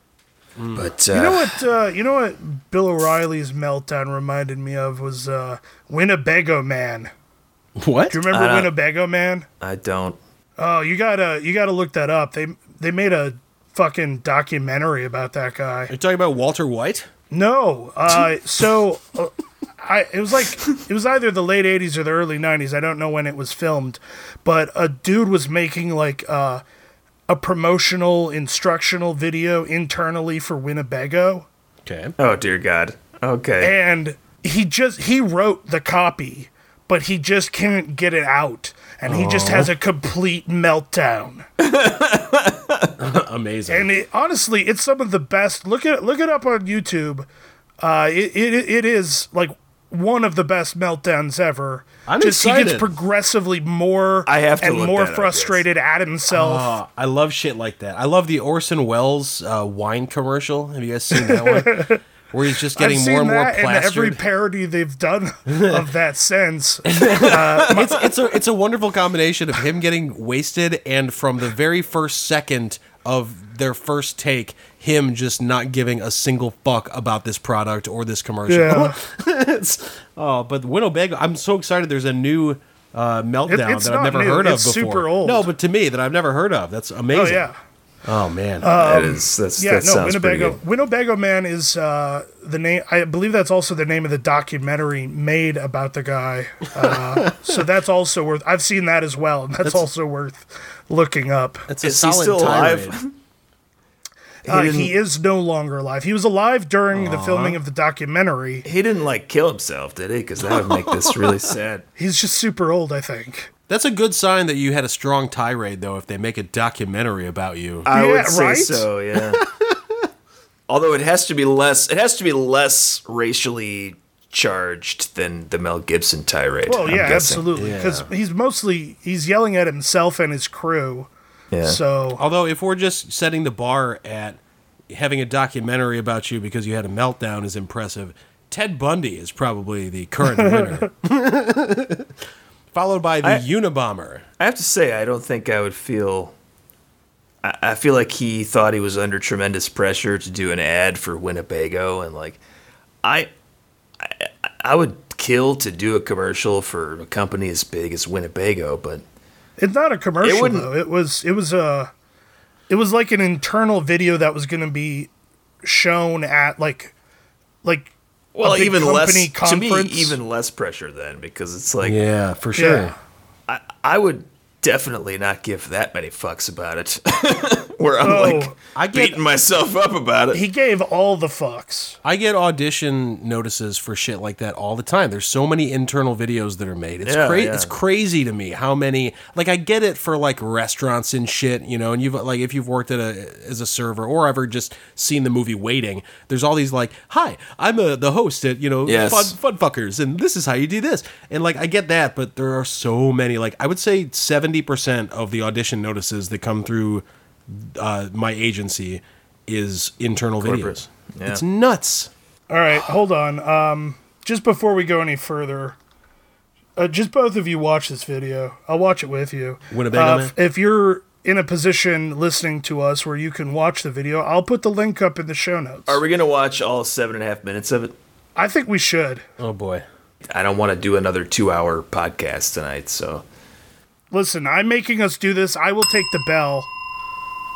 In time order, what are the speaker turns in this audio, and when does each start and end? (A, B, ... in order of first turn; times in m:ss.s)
0:00.6-0:00.9 A
0:00.8-0:01.6 B
0:01.1-0:07.1 C
0:07.8-0:08.2 A
0:08.1-0:09.5 C
0:08.3-0:08.7 B
0:09.6-0:10.2 B
0:10.6-0:15.9 C
0:15.9-0:17.1 A
0:17.3-0:26.6 C
0:27.3-0:31.5 C
0:31.8-0:32.2 A
0:32.2-0:33.7 B
0:33.6-0:41.5 C
0:39.1-0:39.7 A
0:41.6-0:43.0 B
0:43.0-0:43.9 A
0:43.7-0:47.3 C
0:47.8-0:56.8 C
0:52.1-0:52.9 A
0:54.3-0:55.6 B
0:56.3-1:04.2 A
1:01.2-1:02.0 C
1:02.7-1:08.1 C
1:05.5-1:05.8 A
1:06.9-1:27.5 A
1:07.2-1:08.1 B
1:18.5-1:19.0 C
1:23.5-1:25.5 C
1:27.1-1:27.6 C
1:28.0-1:28.7 A
1:28.6-1:41.7 C
1:28.7-1:30.6 B
1:36.8-1:37.5 A
1:41.7-1:43.0 A
1:41.8-1:43.1 B
1:44.5-1:45.0 B
1:44.5-1:48.7 C
1:46.9-1:47.6 A
1:48.6-1:51.8 B
1:50.4-1:51.5 A
1:52.0-1:53.5 C
1:53.7-1:57.9 A
1:57.8-1:59.4 B
1:57.9-1:58.9 C
1:59.3-2:00.1 A
2:00.7-2:07.5 B
2:06.7-2:11.1 C
2:07.6-2:08.1 A
2:11.5-2:11.8 B
2:11.6-2:12.2 C
2:12.2-2:22.1 A
2:22.7-2:24.2 A
2:24.4-2:26.3 B
2:27.4-2:32.4 B
2:33.0-2:33.3 B
2:34.0-2:39.0 B
2:39.6-2:41.9 C
2:40.2-2:40.7 B
2:42.7-2:45.1 C
2:45.6-2:46.9 C
2:47.6-2:50.2 C
2:48.4-2:52.0 B
2:51.8-2:52.9 A
2:52.6-2:52.9 C
2:53.5-3:00.4 B
2:58.0-2:58.6 C
2:58.8-2:59.2 A
3:00.3-3:02.0 C
3:02.0-3:32.1 A
3:07.0-3:07.7 B
3:18.9-3:19.3 B
3:30.4-3:31.4 B
3:32.5-3:35.8 C
3:36.8-3:46.0 C
3:39.7-3:40.3 A
3:45.9-3:48.0 B
3:48.4-3:49.2 C
3:49.4-3:49.8 A
3:50.3-3:53.2 B
3:54.1-3:56.7 C